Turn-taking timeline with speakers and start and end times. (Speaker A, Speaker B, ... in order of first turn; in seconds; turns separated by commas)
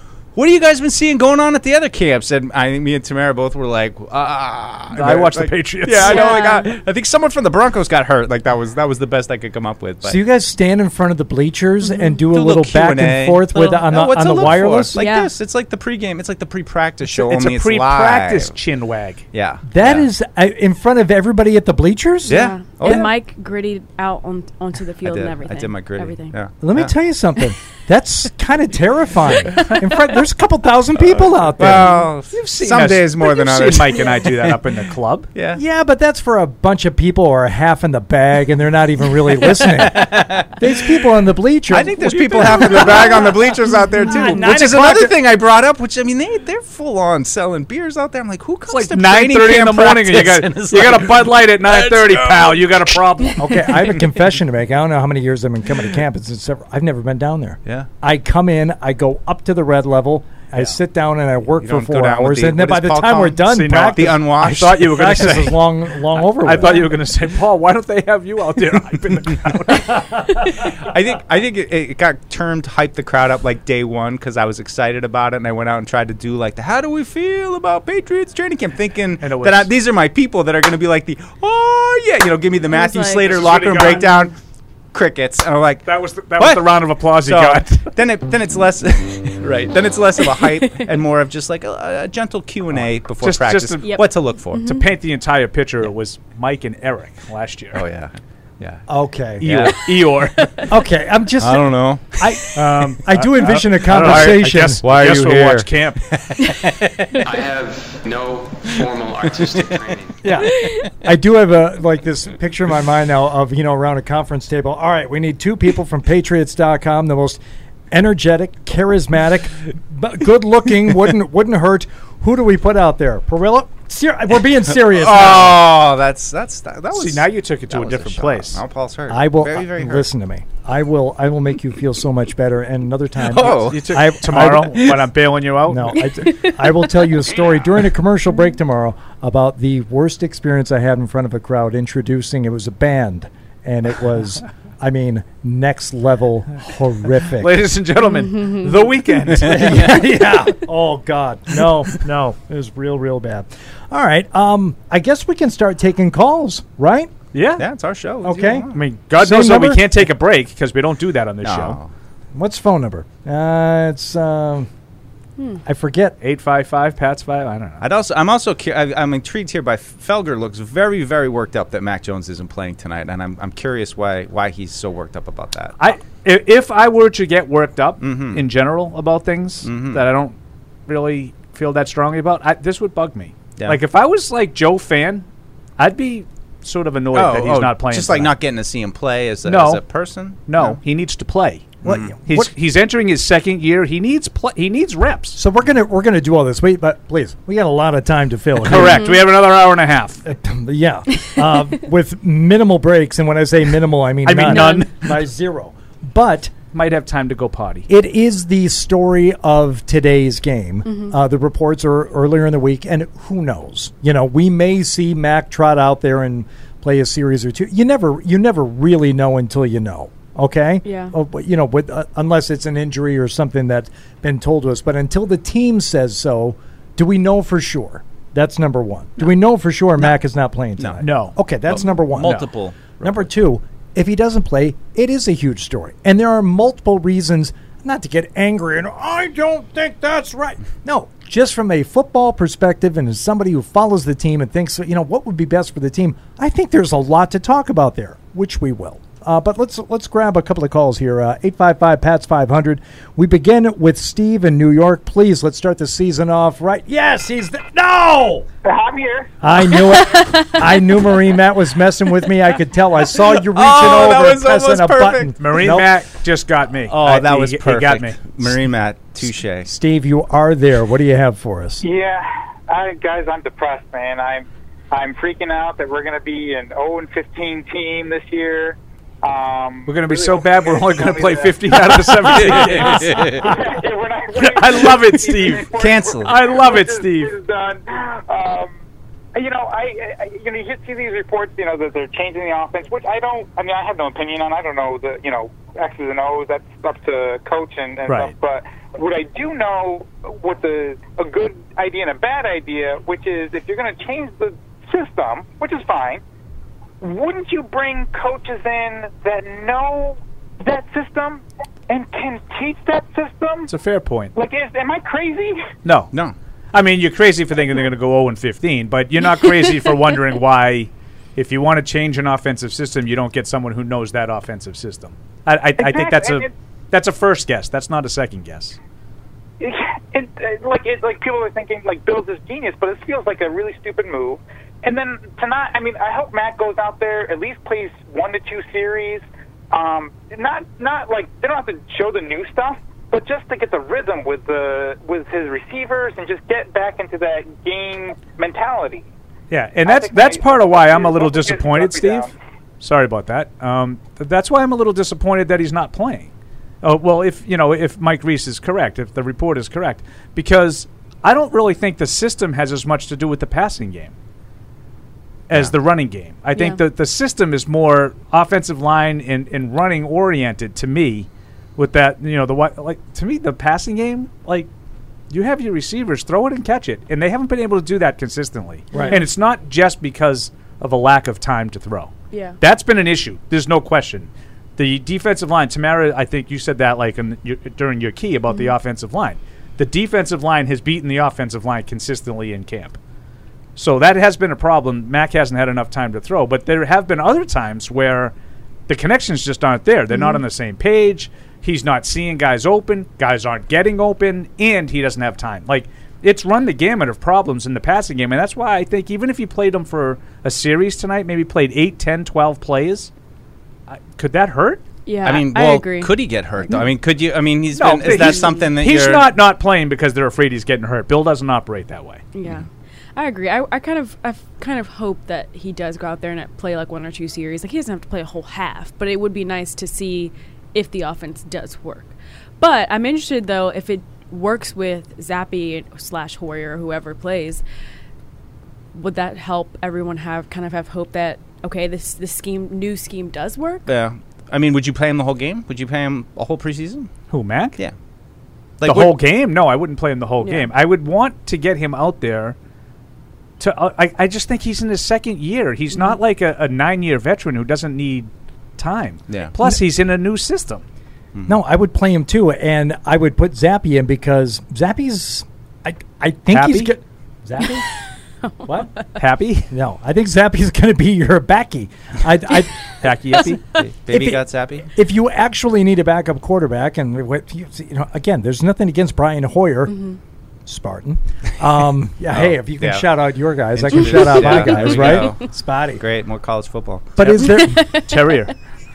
Speaker A: 0.3-10.2, Speaker B: 4.9-6.3, Speaker C: 6.0-6.7, Speaker D: 10.0-14.9, Speaker A: 12.3-18.5, Speaker C: 15.0-15.3, Speaker B: 17.1-19.2, Speaker A: 19.3-20.1, Speaker D: 19.7-23.0, Speaker C: 22.3-26.4, Speaker A: 22.3-23.1, Speaker A: 25.0-26.9, Speaker D: 26.6-31.9, Speaker A: 31.1-34.6, Speaker B: 32.3-35.3, Speaker A: 35.3-35.6, Speaker D: 35.5-43.3, Speaker A: 39.6-40.6, Speaker A: 41.7-53.0, Speaker C: 42.6-43.3, Speaker D: 44.0-45.1, Speaker B: 48.7-53.4, Speaker D: 53.4-66.8, Speaker A: 61.6-65.2, Speaker B: 63.5-65.6, Speaker B: 66.3-70.1, Speaker A: 70.5-84.4, Speaker B: 79.2-79.7, Speaker C: 82.7-83.9, Speaker B: 83.3-84.2, Speaker A: 84.9-94.8, Speaker B: 85.8-87.9, Speaker C: 90.2-90.9, Speaker B: 93.2-93.9, Speaker C: 93.8-94.8, Speaker B: 94.6-97.8, Speaker A: 97.7-98.8, Speaker D: 98.9-99.5, Speaker B: 99.4-100.5, Speaker A: 99.4-99.8, Speaker D: 100.7-105.0, Speaker A: 101.4-102.2, Speaker B: 102.6-106.0, Speaker A: 103.9-107.2, Speaker E: 107.2-110.2, Speaker A: 109.3-109.6, Speaker D: 110.2-117.4, Speaker D: 117.9-125.7, Speaker A: 124.8-130.1, Speaker B: 126.9-128.6, Speaker D: 129.1-135.0, Speaker A: 133.2-134.1, Speaker B: 133.5-136.0, Speaker D: 135.7-147.7, Speaker C: 136.0-136.8, Speaker B: 147.4-150.0, Speaker C: 148.0-148.8, Speaker D: 149.4-157.1, Speaker A: 149.4-150.1, Speaker B: 157.3-157.6, Speaker A: 157.6-158.8, Speaker D: 158.2-158.7, Speaker B: 158.7-161.8, Speaker D: 159.2-159.9, Speaker A: 161.4-161.9, Speaker D: 162.3-164.7, Speaker D: 165.7-166.2, Speaker B: 166.2-167.8, Speaker A: 167.8-175.8, Speaker B: 175.8-180.4, Speaker A: 178.0-178.4, Speaker A: 179.6-180.1, Speaker B: 180.9-185.3, Speaker B: 185.8-188.3, Speaker A: 187.1-190.8, Speaker B: 189.4-189.8, Speaker B: 190.5-195.4, Speaker A: 191.8-192.2, Speaker D: 191.9-192.5, Speaker D: 195.4-199.1, Speaker B: 198.6-200.2, Speaker D: 200.2-206.5, Speaker B: 204.2-205.0, Speaker C: 204.4-204.9, Speaker B: 206.7-207.9, Speaker D: 207.9-232.4, Speaker C: 210.9-211.1, Speaker C: 220.8-221.1, Speaker A: 230.8-231.0, Speaker B: 231.0-231.4, Speaker A: 231.7-233.3, Speaker B: 232.2-232.5, Speaker D: 233.0-258.5, Speaker F: 258.6-259.3, Speaker D: 259.4-265.9, Speaker C: 259.8-260.8, Speaker A: 263.3-265.3, Speaker B: 265.4-268.4, Speaker A: 266.9-269.7, Speaker D: 269.7-271.9, Speaker F: 271.8-282.1, Speaker B: 279.9-283.5, Speaker A: 282.3-283.6, Speaker F: 283.4-288.7, Speaker B: 284.4-287.4, Speaker A: 285.8-286.3, Speaker F: 289.4-306.2, Speaker F: 307.0-313.7, Speaker B: 313.7-314.3, Speaker F: 314.4-315.6, Speaker B: 315.8-316.1, Speaker B: 316.7-328.8, Speaker F: 325.8-326.5, Speaker F: 329.6-349.1, Speaker B: 349.5-356.3, Speaker F: 349.9-352.3, Speaker B: 356.8-364.1, Speaker B: 365.5-374.7, Speaker C: 366.6-366.8, Speaker B: 375.3-393.0, Speaker C: 378.9-379.2, Speaker C: 382.3-382.6, Speaker B: 393.8-398.3, Speaker B: 398.9-413.1, Speaker C: 400.1-400.4, Speaker B: 413.9-414.8, Speaker C: 415.1-416.9, Speaker A: 415.2-419.2, Speaker B: 417.7-422.2, Speaker C: 418.0-418.7, Speaker C: 422.3-437.6, Speaker C: 438.9-443.9, Speaker A: 443.9-447.1, Speaker B: 447.3-447.8, Speaker A: 448.8-449.1, Speaker B: 448.8-452.6, Speaker C: 450.4-450.7, Speaker B: 453.6-460.8, Speaker D: 461.5-467.9, Speaker B: 466.5-466.9, Speaker C: 468.5-469.1, Speaker B: 469.2-469.7, Speaker D: 469.7-472.9, Speaker B: 473.0-473.6, Speaker A: 473.8-474.9, Speaker D: 474.1-479.9, Speaker C: 479.9-480.2, Speaker D: 480.7-486.0, Speaker A: 482.3-483.1, Speaker A: 483.8-487.3, Speaker C: 484.4-485.3, Speaker D: 487.2-487.9, Speaker C: 487.5-488.1, Speaker B: 487.9-488.6